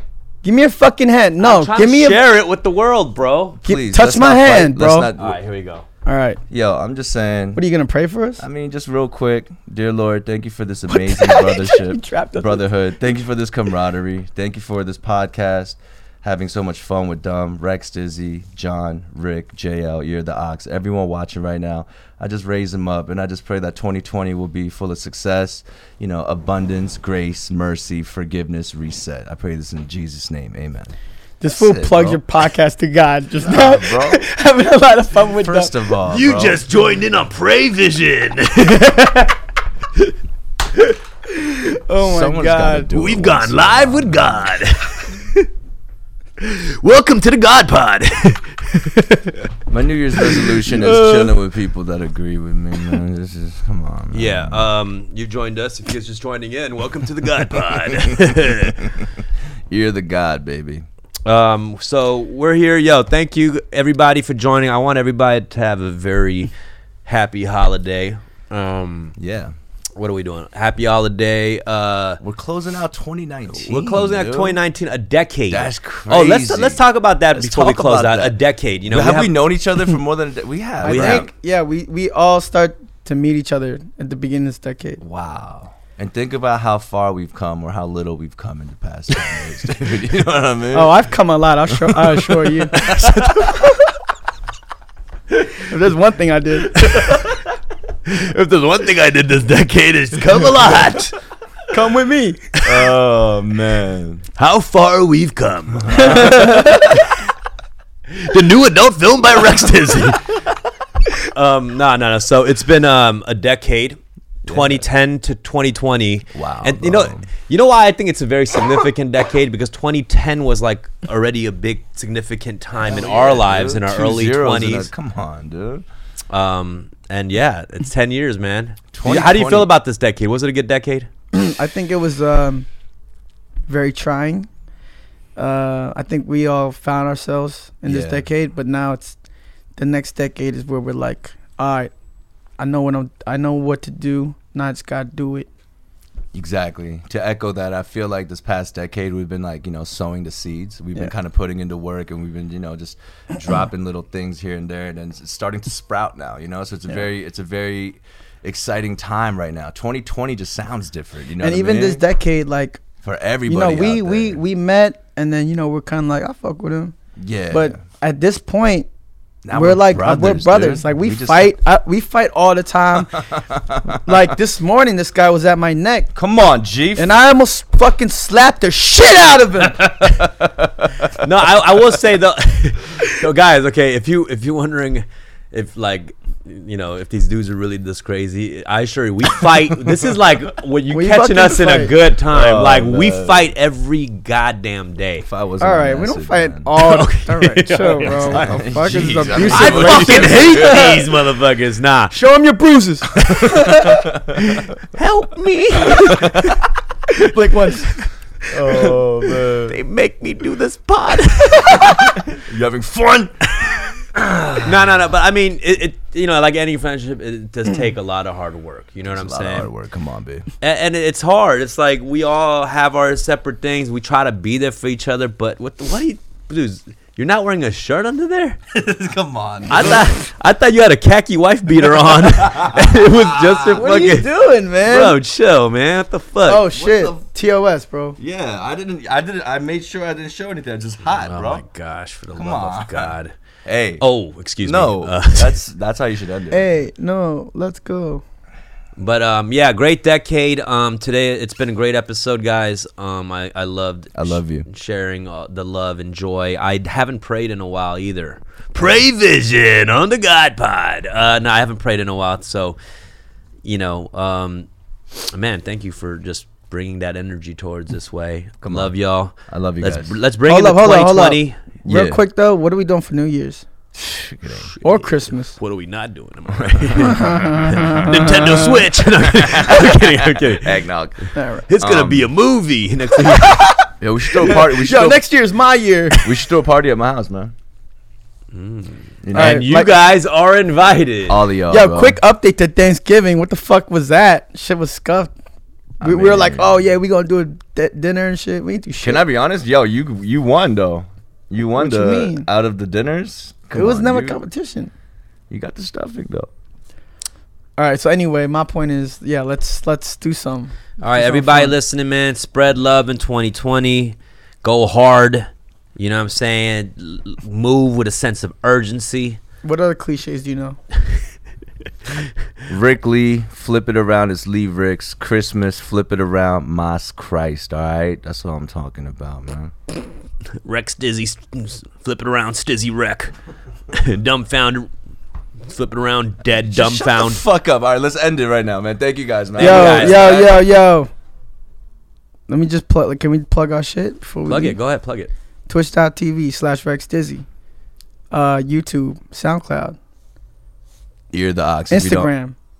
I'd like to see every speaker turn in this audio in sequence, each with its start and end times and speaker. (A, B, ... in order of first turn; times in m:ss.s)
0:00.4-0:02.2 A
0:01.4-0:03.6 B
0:03.6-0:05.4 C
0:03.6-0:05.1 A
0:05.2-0:05.8 B
0:06.0-0:06.4 A
0:06.5-0:07.6 C
0:07.6-0:08.4 A
0:08.4-0:31.0 C
0:10.9-0:12.6 A
0:31.4-0:35.7 A
0:31.5-0:32.2 C
0:33.4-0:34.2 C
0:35.3-0:36.6 C
0:36.0-0:39.3 B
0:41.3-0:42.9 A
0:42.0-0:44.5 C
0:42.9-0:45.5 B
0:46.4-0:49.4 B
0:49.7-0:54.6 C
0:50.4-0:50.7 B
0:54.1-0:58.9 B
0:57.8-0:59.2 C
0:59.7-1:00.8 C
1:01.2-1:06.5 B
1:07.0-1:09.1 B
1:09.2-1:09.5 C
1:10.0-1:12.2 B
1:12.2-1:14.6 C
1:13.5-1:19.3 B
1:15.5-1:18.3 C
1:18.9-1:21.3 C
1:20.8-1:25.0 A
1:20.8-1:21.3 B
1:25.0-1:31.0 C
1:30.7-1:32.8 A
1:31.7-1:33.8 C
1:32.8-1:33.3 B
1:35.6-1:36.8 A
1:36.7-1:37.4 B
1:38.0-1:41.2 B
1:41.7-1:42.5 A
1:42.6-1:44.3 C
1:44.4-1:47.2 B
1:45.8-1:46.7 C
1:45.9-1:46.8 A
1:48.1-1:50.4 B
1:51.2-2:04.9 B
1:54.4-1:54.8 C
1:56.3-1:57.2 C
2:02.8-2:05.8 C
2:06.3-2:11.1 B
2:08.9-2:09.7 C
2:11.3-2:12.7 A
2:13.7-2:14.5 A
2:15.4-2:19.2 A
2:17.8-2:18.2 C
2:19.8-2:21.9 A
2:22.6-2:25.5 A
2:26.3-2:42.0 C
2:41.4-2:42.8 A
2:43.0-2:44.4 C
2:43.5-2:46.9 A
2:47.2-2:47.8 C
2:47.5-2:48.9 A
2:49.4-2:51.5 C
2:49.5-2:53.2 A
2:53.2-2:54.0 C
2:53.9-2:56.1 A
2:56.1-2:57.1 C
2:57.0-3:00.0 A
3:00.0-3:01.2 C
3:01.1-3:15.2 B
3:10.9-3:11.9 A
3:12.3-3:13.4 C
3:15.2-3:16.7 C
3:15.6-3:21.1 A
3:16.8-3:22.1 B
3:18.0-3:21.0 C
3:22.1-3:24.1 A
3:23.1-3:24.6 C
3:24.5-3:26.6 B
3:25.8-3:26.6 C
3:27.2-3:29.0 A
3:28.5-3:29.8 C
3:29.6-3:32.2 B
3:31.6-3:33.4 C
3:33.5-3:34.0 B
3:34.1-3:34.9 C
3:34.6-3:39.7 B
3:39.0-3:40.5 C
3:40.6-3:48.6 B
3:48.7-3:50.1 C
3:49.7-3:54.3 B
3:52.2-3:53.8 C
3:53.6-3:55.2 A
3:54.8-3:56.7 B
3:56.4-3:58.2 A
3:56.7-3:57.2 C
3:58.2-4:01.6 C
4:01.1-4:03.3 B
4:02.4-4:03.1 C
4:03.6-4:04.0 C
4:04.0-4:05.6 B
4:04.6-4:06.7 C
4:06.5-4:08.2 A
4:09.0-4:22.8 B
4:14.2-4:14.6 C
4:23.6-4:24.7 B
4:25.2-4:31.6 B
4:28.6-4:28.9 C
4:29.5-4:30.2 C
4:30.5-4:33.6 A
4:31.8-4:32.2 C
4:34.0-4:34.7 C
4:34.8-4:35.6 A
4:35.5-4:43.7 B
4:37.1-4:38.6 A
4:39.2-4:42.3 C
4:41.3-4:41.6 A
4:43.3-4:43.8 A
4:44.0-4:45.2 C
4:44.4-4:46.2 A
4:46.2-4:47.5 C
4:48.5-4:51.4 B
4:49.2-4:49.7 C
4:49.3-4:49.9 A
4:51.3-4:52.2 C
4:51.7-4:55.3 A
4:56.0-4:56.8 C
4:56.0-4:59.2 A
4:59.0-5:04.4 C
5:01.8-5:02.5 A
5:03.7-5:04.9 A
5:05.5-5:06.5 C
5:07.8-5:11.7 A
5:11.0-5:19.4 B
5:19.6-5:20.8 A
5:22.7-5:29.7 C
5:30.6-5:33.3 B
5:33.9-5:34.9 B
5:35.7-5:37.4 B
5:36.7-5:40.6 C
5:39.6-5:40.4 B
5:39.6-5:41.1 A
5:42.5-5:44.8 A
5:44.5-5:45.3 B
5:45.7-5:47.4 A
5:48.3-5:50.0 A
5:51.3-5:52.3 C
5:51.9-5:52.5 A